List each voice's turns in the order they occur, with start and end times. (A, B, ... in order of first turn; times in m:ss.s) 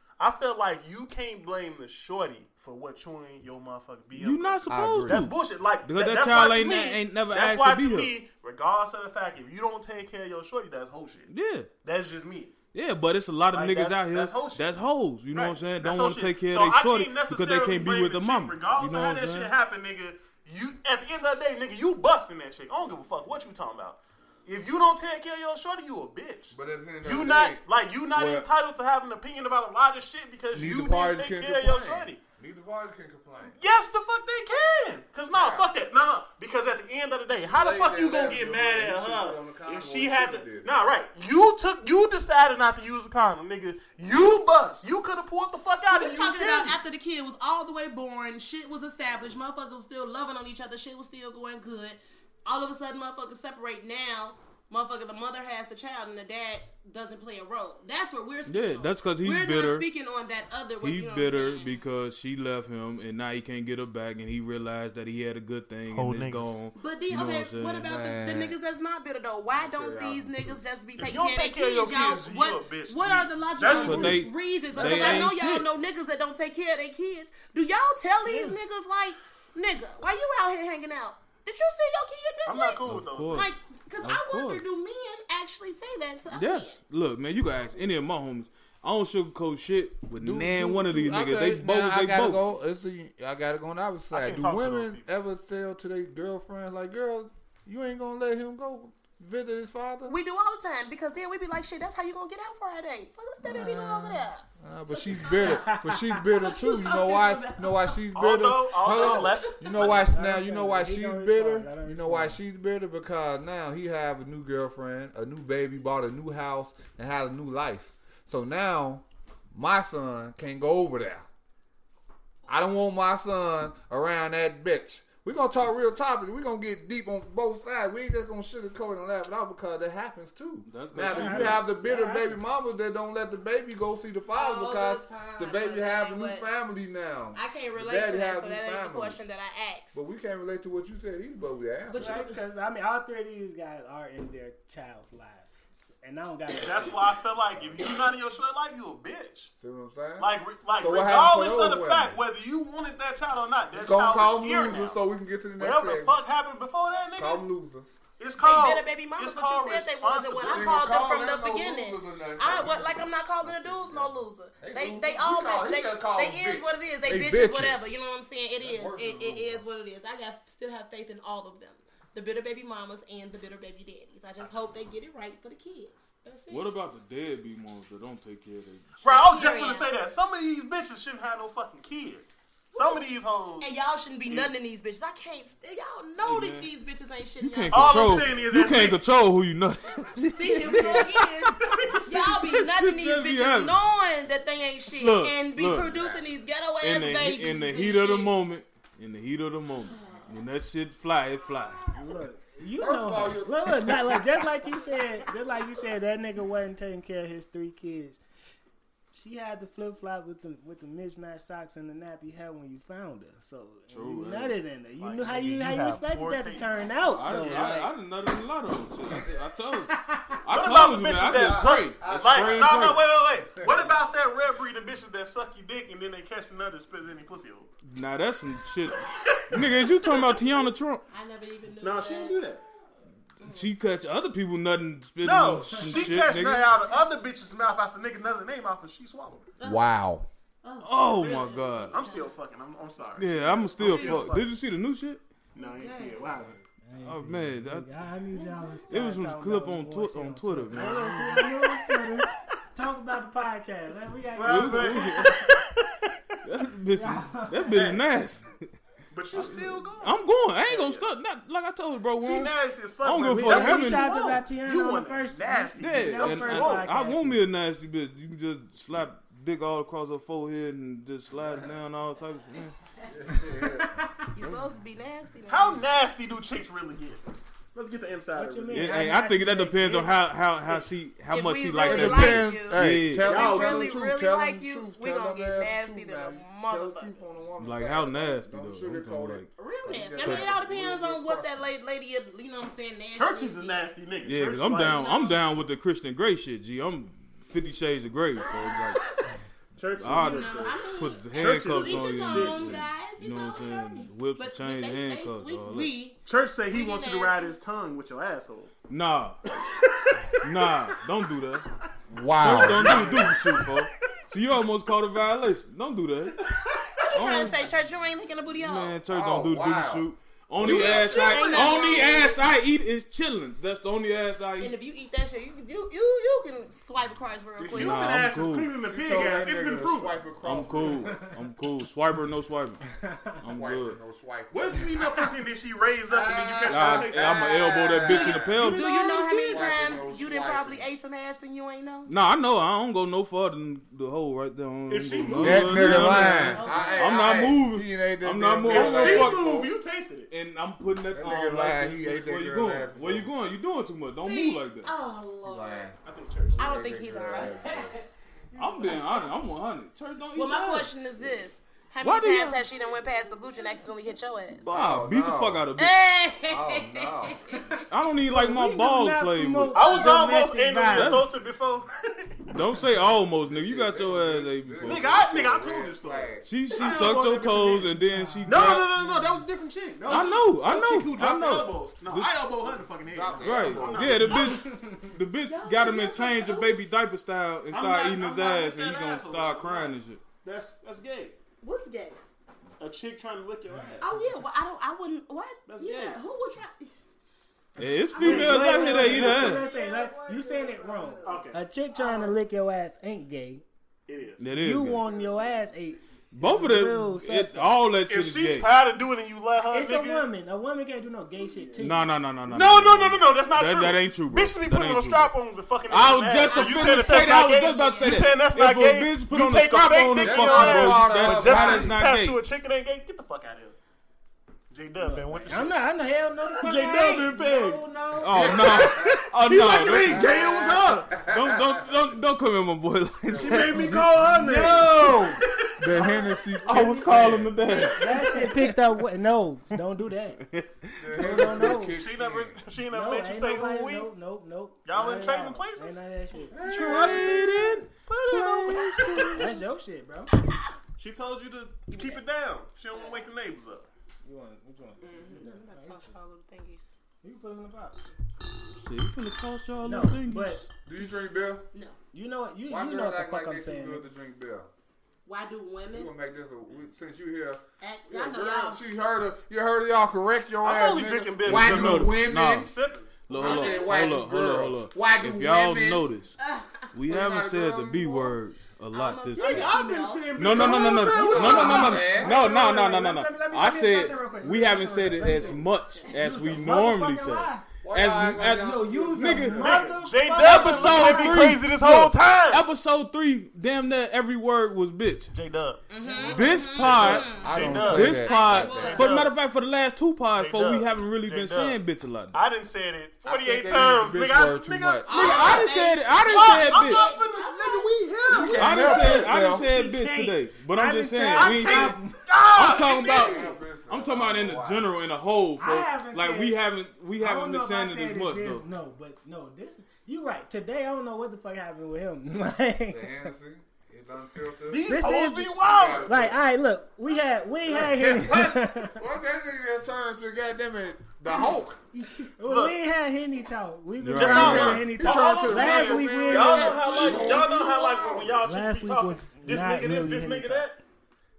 0:00.2-0:11.3 A
0:04.2-0:08.1 B
0:04.7-0:05.3 C
0:11.3-0:11.7 B
0:11.8-0:12.6 A
0:12.7-0:19.5 B
0:13.5-0:14.7 A
0:15.3-0:32.2 A
0:26.5-0:27.6 C
0:28.2-0:28.4 C
0:30.5-0:33.6 C
0:33.4-0:46.8 A
0:35.3-0:35.7 C
0:37.5-0:40.7 C
0:45.9-1:01.8 D
0:58.5-0:59.9 B
1:00.8-1:07.9 B
1:05.9-1:06.5 A
1:06.8-1:26.8 D
1:07.8-1:08.6 C
1:09.5-1:10.6 C
1:11.0-1:15.3 A
1:13.7-1:15.7 B
1:22.4-1:23.6 A
1:22.8-1:24.6 B
1:26.3-1:32.4 B
1:30.2-1:40.2 C
1:34.1-1:35.1 A
1:40.1-1:45.7 D
1:43.4-2:01.3 C
1:45.4-1:46.2 E
1:46.3-1:48.0 D
1:48.2-1:50.1 A
1:48.9-1:49.6 D
1:49.7-1:52.4 E
2:02.5-2:19.2 C
2:10.7-2:11.7 B
2:11.0-2:12.4 E
2:14.4-2:16.5 D
2:17.3-2:20.0 D
2:19.9-2:22.2 C
2:21.9-2:22.4 D
2:21.9-2:27.1 E
2:26.6-2:29.5 A
2:29.6-2:32.2 C
2:30.2-2:35.0 A
2:33.7-2:36.2 C
2:35.6-2:37.4 A
2:37.2-2:38.0 C
2:38.2-2:40.8 A
2:38.4-2:56.7 D
2:40.4-2:48.0 C
2:48.6-2:49.6 C
2:56.5-2:59.3 B
2:59.0-3:03.8 A
2:59.2-2:59.9 D
3:02.7-3:03.0 D
3:03.6-3:08.3 D
3:04.3-3:04.5 A
3:06.2-3:06.7 B
3:07.4-3:13.8 B
3:07.7-3:09.0 A
3:10.3-3:18.4 D
3:10.7-3:11.0 A
3:11.6-3:12.1 A
3:15.0-3:16.1 B
3:15.9-3:16.2 C
3:16.8-3:21.9 B
3:19.9-3:20.4 D
3:21.9-3:28.2 E
3:22.8-3:24.2 C
3:29.1-3:37.9 E
3:33.9-3:34.6 B
3:35.0-3:37.2 A
3:37.1-3:43.1 B
3:39.9-3:40.4 E
3:40.5-3:47.7 A
3:41.3-3:43.0 C
3:43.6-3:44.0 C
3:47.9-3:51.0 B
3:48.9-3:50.4 A
3:51.1-3:52.4 D
3:51.8-3:52.6 A
3:53.4-3:53.8 D
3:53.4-3:56.7 B
3:55.2-3:59.5 A
3:59.6-3:59.8 D
3:59.6-4:00.3 C
4:00.6-4:02.3 D
4:00.8-4:02.1 B
4:01.9-4:04.5 A
4:03.2-4:05.2 B
4:03.7-4:04.4 D
4:05.5-4:06.6 A
4:05.6-4:06.5 D
4:06.8-4:15.3 E
4:07.0-4:07.9 B
4:08.3-4:09.0 D
4:08.9-4:11.6 B
4:11.6-4:12.0 A
4:14.4-4:16.4 A
4:14.4-4:15.4 B
4:16.4-4:18.7 B
4:17.0-4:18.0 E
4:17.7-4:18.0 A
4:19.1-4:21.1 A
4:19.3-4:24.1 B
4:22.2-4:26.9 A
4:23.3-4:27.4 E
4:25.8-4:32.8 B
4:33.1-4:34.0 C
4:33.3-4:34.3 E
4:34.3-4:35.8 D
4:35.5-4:37.2 A
4:37.7-4:38.9 A
4:38.4-4:40.2 E
4:38.7-4:43.4 B
4:41.3-4:47.2 D
4:41.8-4:51.7 C
4:43.2-4:44.0 A
4:47.6-4:49.5 B
4:49.6-4:53.8 D
4:50.2-4:50.5 B
4:53.1-4:55.2 A
4:54.2-4:59.0 B
4:55.0-4:55.4 D
4:58.4-4:59.4 D
4:59.8-5:02.8 A
5:00.0-5:05.9 B
5:00.0-5:07.6 D
5:06.2-5:08.7 A
5:08.9-5:09.4 B
5:09.5-5:11.0 A
5:10.4-5:11.7 B
5:12.1-5:13.3 C
5:12.4-5:16.4 B
5:12.5-5:13.9 A
5:16.4-5:17.1 A
5:17.0-5:19.0 D
5:17.1-5:17.6 B
5:18.6-5:24.8 B
5:19.1-5:20.1 C
5:20.6-5:21.8 C
5:20.6-5:21.7 A
5:20.6-5:22.5 D
5:24.6-5:28.3 D
5:27.6-5:30.3 A
5:27.7-5:28.7 B
5:28.8-5:31.1 C
5:30.4-5:32.9 B
5:33.1-5:33.4 E
5:33.4-5:34.0 B
5:33.4-5:35.0 C
5:34.5-5:39.9 A
5:36.1-5:38.6 C
5:36.7-5:39.1 B
5:38.1-5:42.1 D
5:39.3-5:40.8 C
5:42.1-5:49.7 B
5:44.9-5:46.9 A
5:45.4-5:49.4 C
5:46.0-5:47.5 D
5:48.7-5:50.3 A
5:50.3-5:54.9 B
5:51.1-5:53.3 C
5:54.2-5:55.9 D
5:55.4-5:56.0 C
5:56.0-5:56.7 A
5:56.5-5:58.0 C
5:56.6-5:58.0 D
5:58.6-6:00.9 B
6:00.3-6:04.7 D
6:02.0-6:02.6 B
6:04.6-6:06.0 B
6:04.7-6:05.7 C
6:05.8-6:07.8 D
6:06.5-6:07.4 C
6:07.9-6:10.1 B
6:08.2-6:11.3 E
6:09.7-6:12.5 A
6:10.9-6:11.3 B
6:12.5-6:15.2 B
6:13.5-6:16.5 C
6:14.8-6:17.9 A
6:16.4-6:18.9 B
6:18.1-6:19.4 E
6:18.5-6:24.5 A
6:20.1-6:22.3 B
6:23.1-6:24.4 C
6:23.4-6:30.2 B
6:24.2-6:24.7 D
6:24.5-6:25.1 E
6:25.4-6:26.9 D
6:27.7-6:31.4 A
6:31.6-6:32.2 D
6:32.8-6:34.1 A
6:34.0-6:37.0 D
6:35.7-6:36.2 A
6:37.8-6:39.7 B
6:38.1-6:42.4 D
6:38.1-6:43.6 E
6:38.2-6:39.7 A
6:41.2-6:41.6 A
6:44.1-6:45.6 A
6:44.4-6:45.0 B
6:44.5-6:47.8 E
6:46.3-6:48.7 B
6:48.1-6:50.3 A
6:49.7-6:52.1 E
6:51.4-6:51.9 A
6:51.8-6:55.3 B
6:52.5-7:03.8 A
6:55.9-7:02.4 B
6:56.5-6:58.3 D
7:00.2-7:02.0 C
7:00.4-7:00.8 D
7:04.7-7:05.8 A
7:05.0-7:08.8 E
7:06.6-7:07.8 A
7:08.2-7:10.3 B
7:08.3-7:09.2 C
7:08.4-7:11.2 A
7:10.0-7:11.8 C
7:11.2-7:15.4 B
7:13.2-7:14.1 C
7:13.3-7:16.1 A
7:13.7-7:15.4 E
7:15.8-7:17.9 C
7:16.6-7:18.8 B
7:17.7-7:20.4 E
7:20.5-7:21.8 B
7:21.0-7:22.6 C
7:21.1-7:22.0 E
7:21.9-7:24.1 A
7:22.9-7:26.7 E
7:24.8-7:26.0 A
7:26.5-7:27.6 C
7:26.7-7:29.5 A
7:26.7-7:29.5 B
7:29.4-7:30.3 E
7:31.0-7:33.9 A
7:31.9-7:32.2 D
7:32.9-7:33.2 D
7:34.2-7:36.2 E
7:35.0-7:36.9 D
7:37.2-7:38.1 E
7:38.8-7:40.7 B
7:39.8-7:40.6 E
7:40.8-7:41.7 C
7:41.7-7:42.0 D
7:42.1-7:44.1 E
7:42.7-7:44.7 C
7:45.2-7:46.1 D
7:45.9-7:52.7 C
7:47.8-7:48.8 D
7:50.6-7:53.3 A
7:51.4-7:52.7 B
7:53.3-7:56.4 B
7:53.3-7:54.1 D
7:53.3-7:56.1 C
7:56.4-7:56.9 D
7:56.9-7:59.8 B
7:57.0-7:58.4 C
7:58.9-8:02.2 D
7:59.4-8:02.0 A
8:00.4-8:15.3 B
8:00.6-8:02.4 C
8:01.5-8:07.6 E
8:05.3-8:06.2 D
8:07.8-8:09.8 C
8:08.6-8:11.5 E
8:09.5-8:12.6 A
8:15.3-8:19.4 A
8:15.9-8:19.4 D
8:16.0-8:16.6 E
8:16.3-8:22.4 B
8:16.8-8:19.2 C
8:20.3-8:21.8 A
8:22.3-8:25.7 A
8:23.2-8:25.4 C
8:25.1-8:28.6 D
8:25.1-8:27.2 B
8:26.2-8:29.4 A
8:28.3-8:29.7 C
8:28.6-8:32.0 B
8:28.9-8:32.3 E
8:31.4-8:33.6 A
8:32.5-8:38.6 B
8:32.9-8:34.9 C
8:35.6-8:36.6 E
8:37.2-8:43.3 E
8:42.9-8:44.9 C
8:44.7-8:46.1 A
8:44.9-8:49.0 E
8:45.6-8:46.4 C
8:47.7-8:51.8 C
8:51.3-8:56.9 E
8:52.4-8:52.8 A
8:54.0-8:55.0 B
8:54.1-9:00.8 A
8:54.2-8:58.3 C
8:56.5-8:58.3 D
8:58.4-9:00.7 E